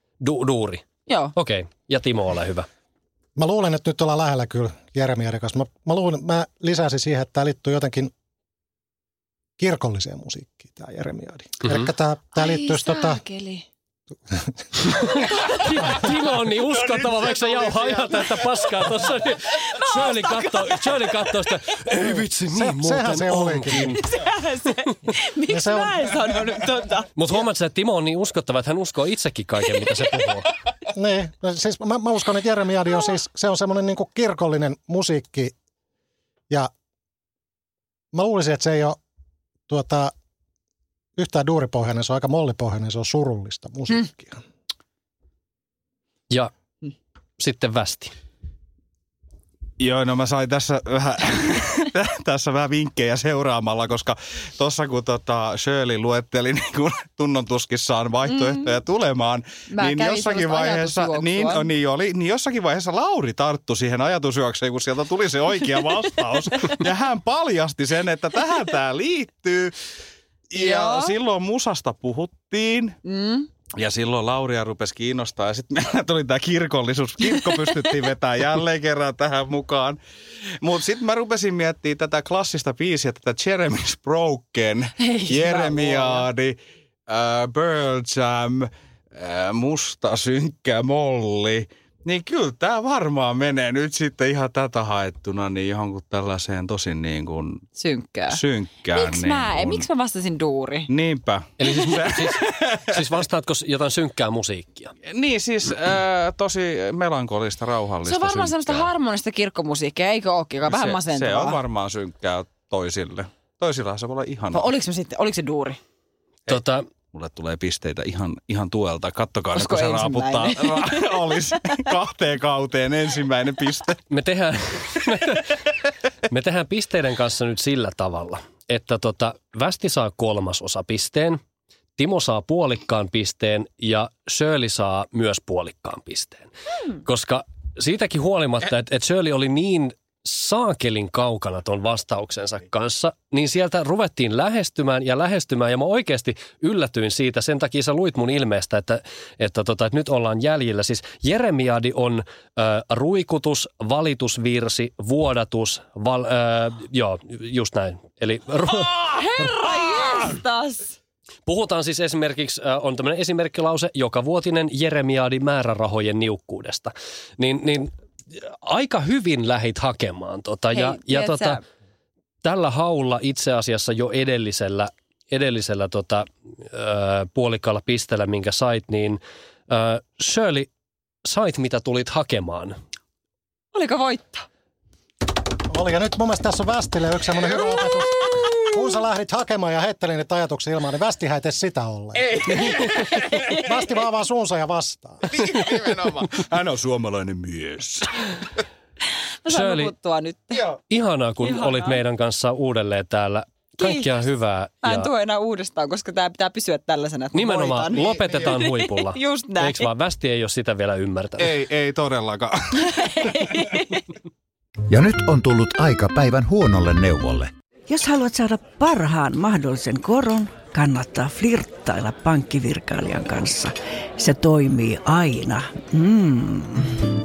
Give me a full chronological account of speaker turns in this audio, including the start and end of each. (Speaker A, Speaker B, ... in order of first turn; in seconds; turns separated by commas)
Speaker A: 0.2-2.7, Speaker B: 1.1-1.3, Speaker C: 3.4-8.1, Speaker C: 9.6-13.2, Speaker B: 12.3-13.7, Speaker A: 14.9-24.0, Speaker D: 16.9-18.4, Speaker B: 19.5-21.3, Speaker C: 22.5-24.0, Speaker B: 24.0-27.1, Speaker C: 25.5-26.1, Speaker A: 27.2-30.5, Speaker C: 30.9-35.5, Speaker C: 38.1-39.0, Speaker C: 39.7-40.1, Speaker C: 41.2-44.4, Speaker A: 47.4-48.1, Speaker D: 49.8-69.8, Speaker B: 58.3-58.7, Speaker B: 59.7-61.7, Speaker D: 70.5-73.0, Speaker B: 70.6-71.2, Speaker B: 73.0-73.5, Speaker D: 73.7-80.0, Speaker D: 80.6-97.7, Speaker B: 85.0-86.3, Speaker B: 97.8-98.4, Speaker D: 98.3-99.9, Speaker B: 98.9-100.9, Speaker D: 100.9-103.0, Speaker A: 101.6-104.9, Speaker D: 105.0-108.9, Speaker B: 108.1-111.6, Speaker D: 110.7-114.7, Speaker B: 114.5-115.8, Speaker D: 116.5-124.0, Speaker A: 116.5-116.9, Speaker B: 119.5-121.6, Speaker A: 124.1-125.6, Speaker A: 126.3-131.4, Speaker A: 132.0-136.5, Speaker A: 137.0-158.9, Speaker B: 158.7-161.0, Speaker A: 161.5-171.6, Speaker B: 170.7-171.6, Speaker A: 172.4-180.7, Speaker A: 181.2-182.8, Speaker B: 183.7-184.5, Speaker C: 185.7-192.8, Speaker B: 187.8-188.5, Speaker D: 192.2-193.4, Speaker B: 193.3-193.7, Speaker C: 193.5-195.6, Speaker D: 195.3-198.5, Speaker B: 199.4-200.8, Speaker A: 199.5-199.9, Speaker A: 200.9-205.1, Speaker B: 201.4-202.0, Speaker B: 203.8-204.2, Speaker B: 204.8-209.9, Speaker A: 207.3-211.5, Speaker D: 208.0-208.4, Speaker D: 211.4-213.8, Speaker B: 212.8-214.0, Speaker E: 214.9-217.5, Speaker F: 217.9-227.0